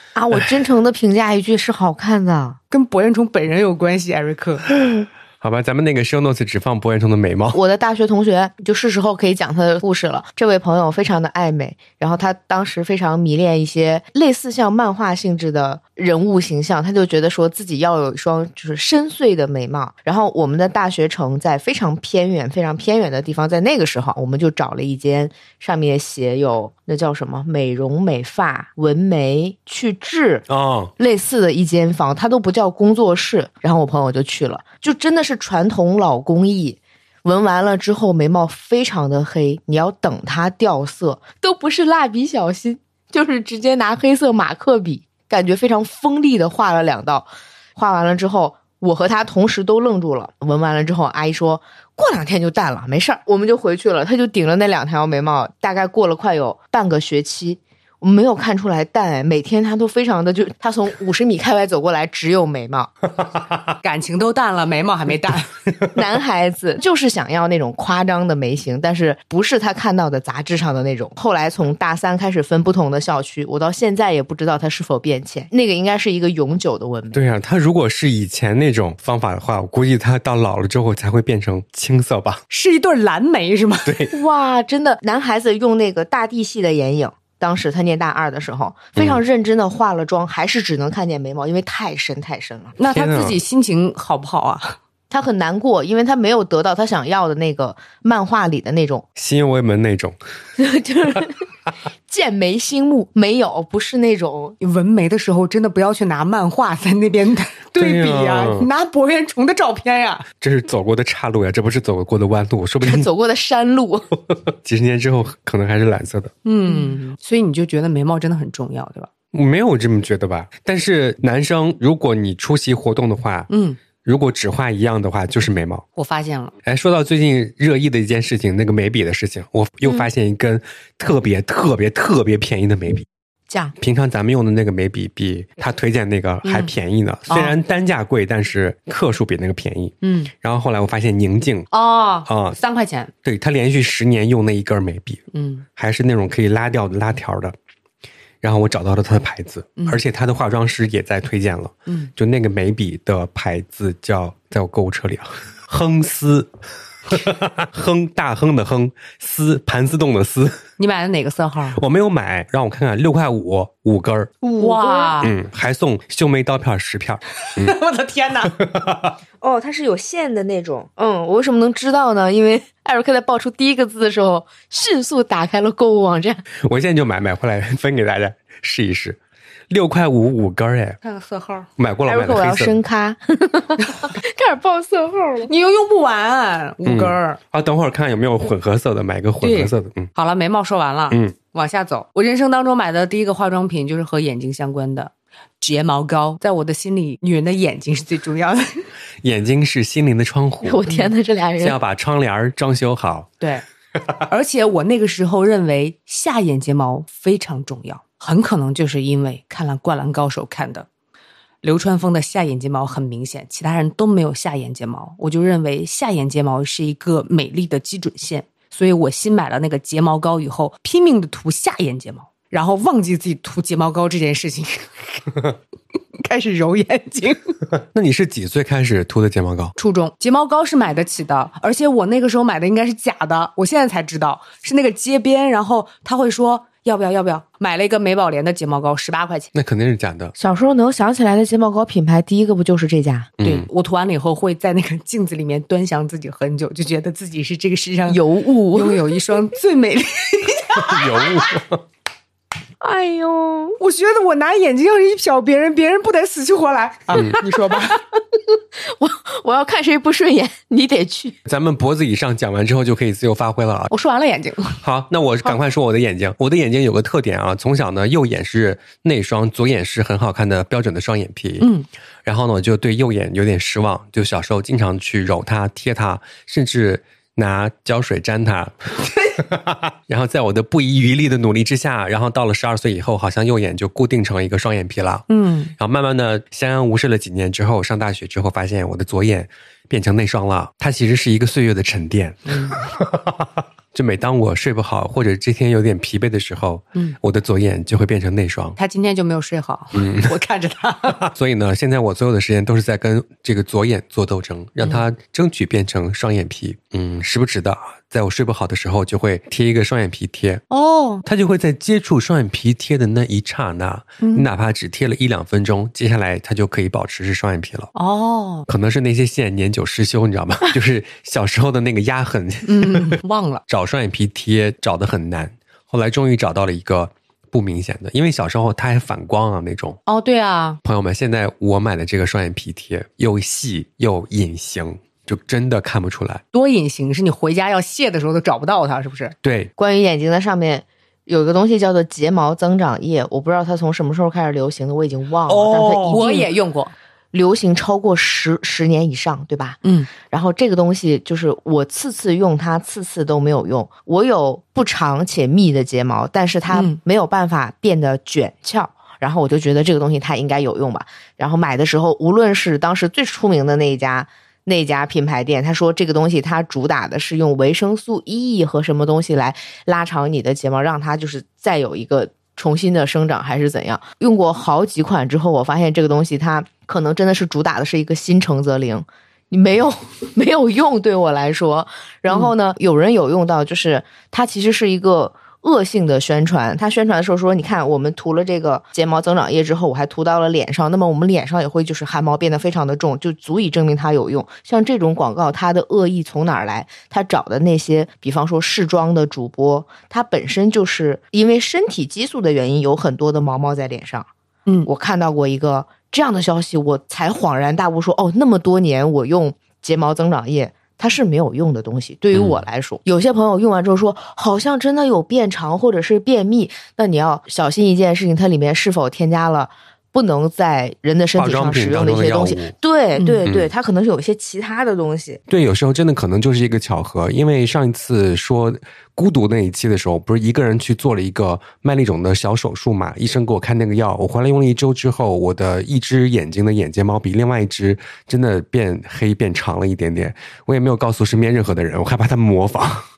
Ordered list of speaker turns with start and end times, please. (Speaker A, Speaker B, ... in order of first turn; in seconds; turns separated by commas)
Speaker A: 0.1-2.6, Speaker B: 2.7-4.6, Speaker C: 4.9-7.6, Speaker A: 7.5-30.4, Speaker C: 30.5-30.9, Speaker A: 31.0-62.9, Speaker B: 63.8-65.5, Speaker A: 65.9-77.2, Speaker C: 77.1-82.4, Speaker B: 82.5-83.9, Speaker C: 83.8-84.1, Speaker A: 84.1-92.8, Speaker C: 89.0-89.2, Speaker B: 92.8-94.8, Speaker C: 92.8-93.4, Speaker A: 95.1-99.0, Speaker C: 99.2-100.2, Speaker A: 100.6-101.4, Speaker A: 102.1-104.6, Speaker B: 104.6-110.2, Speaker C: 107.8-108.7, Speaker C: 110.4-113.1, Speaker A: 112.8-114.1, Speaker C: 114.6-116.3, Speaker B: 116.4-119.1, Speaker C: 119.3-123.5, Speaker B: 123.5-123.8, Speaker C: 124.0-125.8, Speaker B: 126.0-126.5, Speaker C: 126.7-133.1, Speaker A: 133.5-133.7, Speaker C: 133.8-141.7, Speaker B: 136.4-136.7, Speaker B: 137.3-137.5, Speaker B: 140.0-140.3, Speaker B: 141.7-143.1, Speaker C: 142.2-142.6, Speaker C: 143.2-145.2, Speaker B: 145.3-145.6, Speaker C: 145.8-147.5, Speaker C: 148.4-156.5, Speaker C: 157.1-160.6, Speaker B: 160.8-161.8, Speaker C: 161.8-164.3, Speaker B: 164.4-165.3, Speaker A: 164.6-165.2, Speaker C: 165.2-167.8, Speaker B: 167.6-168.5, Speaker C: 168.6-169.1, Speaker A: 169.4-176.4, Speaker C: 176.6-179.2, Speaker C: 179.7-181.0, Speaker B: 181.0-181.7, Speaker C: 181.8-182.8, Speaker A: 182.1-185.5, Speaker B: 185.5-187.4, Speaker C: 186.8-190.1, Speaker B: 189.4-198.8, Speaker C: 199.2-200.8, Speaker A: 200.6-201.8, Speaker C: 201.6-203.3, Speaker B: 204.3-210.9, Speaker B: 211.6-225.4, Speaker B: 226.2-227.5, Speaker C: 227.9-229.7, Speaker B: 229.8-239.5, Speaker C: 239.5-240.3, Speaker A: 240.4-243.3, Speaker C: 243.4-243.7, Speaker B: 243.4-251.3, Speaker A: 248.1-249.0, Speaker C: 250.8-251.8, Speaker A: 252.8-253.8, Speaker B: 253.8-258.0, Speaker C: 257.1-257.4, Speaker A: 258.8-261.4, Speaker C: 261.4-263.9, Speaker B: 263.9-264.8, Speaker C: 264.8-271.7, Speaker B: 271.6-271.9, Speaker C: 272.2-278.8, Speaker C: 279.4-285.2, Speaker B: 285.3-285.7, Speaker C: 285.8-298.8, Speaker B: 292.5-292.9, Speaker B: 298.8-301.2, Speaker C: 299.9-300.3, Speaker C: 301.2-310.6, Speaker B: 310.7-311.2, Speaker C: 311.2-317.9, Speaker B: 314.2-314.5, Speaker B: 317.9-318.7, Speaker C: 318.7-323.1, Speaker B: 322.6-323.6, Speaker C: 323.7-330.0, Speaker B: 330.1-330.8, Speaker C: 330.8-336.4, Speaker B: 336.5-339.4, Speaker C: 339.4-339.7, Speaker A: 339.8-346.5, Speaker C: 345.5-346.2, Speaker B: 346.1-346.9, Speaker A: 347.3-404.3, Speaker B: 349.8-350.1, Speaker B: 356.7-357.0, Speaker A: 404.8-425.4, Speaker C: 412.3-412.6, Speaker C: 421.4-422.7, Speaker C: 425.5-443.0